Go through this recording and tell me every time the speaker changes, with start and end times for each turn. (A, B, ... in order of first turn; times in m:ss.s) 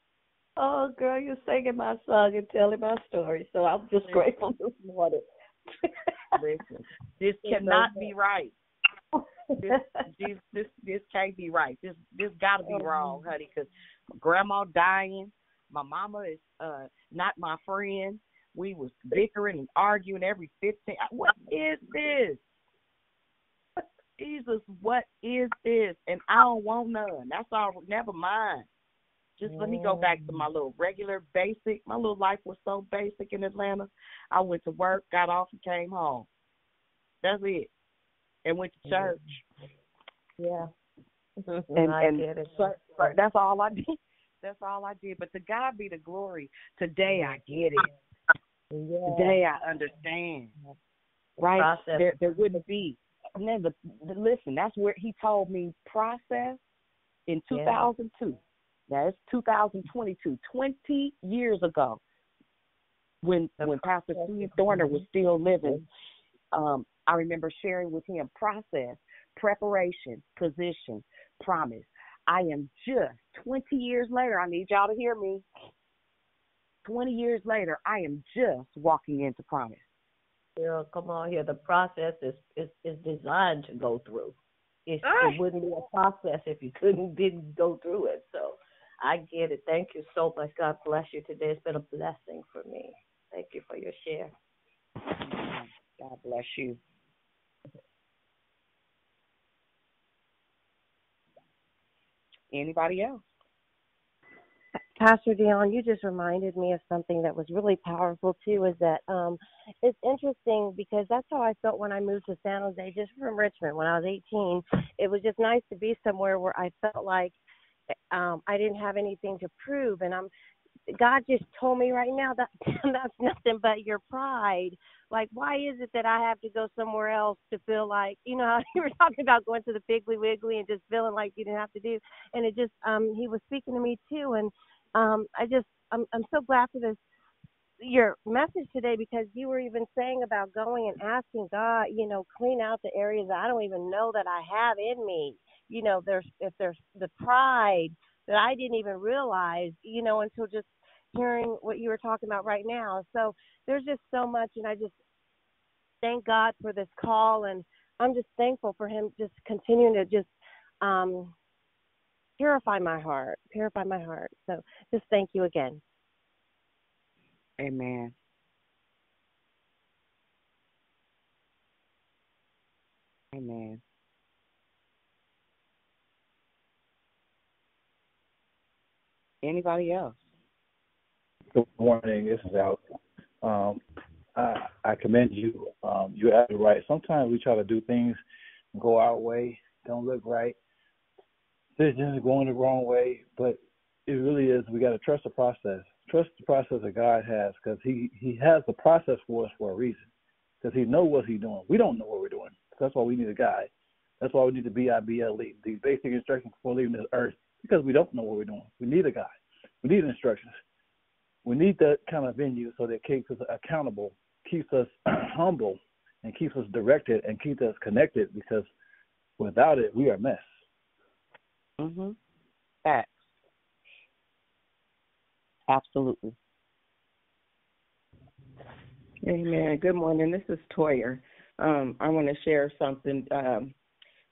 0:00.6-0:05.2 A
0:05.8-0:06.5 A
0:06.4-0:08.5 B
0:07.4-0:08.1 A
0:09.6-0:10.0 A
0:09.6-0:22.4 B
0:12.6-0:13.3 A
0:21.4-0:21.8 A
0:24.2-0:28.7 B
0:29.4-0:36.3 B
0:29.4-0:30.5 A
0:37.2-0:37.7 B
0:38.4-0:39.4 B
0:38.8-0:39.4 A
0:40.4-0:40.7 A
0:41.4-0:43.2 A
0:41.8-0:47.9 B
0:47.0-0:47.9 A
0:48.7-0:50.7 A
0:49.0-0:50.6 B
0:51.4-0:56.6 B
0:51.5-0:52.6 A
0:57.3-1:02.0 B
0:57.5-0:57.9 A
1:03.2-1:05.8 B
1:03.6-1:05.1 A
1:06.5-1:15.5 B
1:16.8-1:19.9 B
1:20.6-1:34.3 A
1:35.2-1:36.8 B
1:42.5-1:43.2 B
1:45.0-1:57.4 C
1:58.1-2:00.3 C
2:00.9-2:17.0 C
2:17.8-2:35.0 C
2:36.0-2:41.3 C
2:42.4-2:45.8 C
2:47.6-2:48.1 B
2:53.3-2:53.8 B
2:59.4-3:00.2 B
3:01.5-3:03.8 D
3:04.4-3:08.2 D
3:08.7-3:10.6 D
3:11.8-3:20.1 D
3:20.6-3:23.7 D
3:24.2-3:29.3 D
3:29.8-3:30.6 D
3:31.4-3:38.7 D
3:39.4-3:40.5 D
3:41.8-3:42.2 B
3:42.8-3:43.2 B
3:45.7-3:46.4 B
3:49.2-3:53.7 E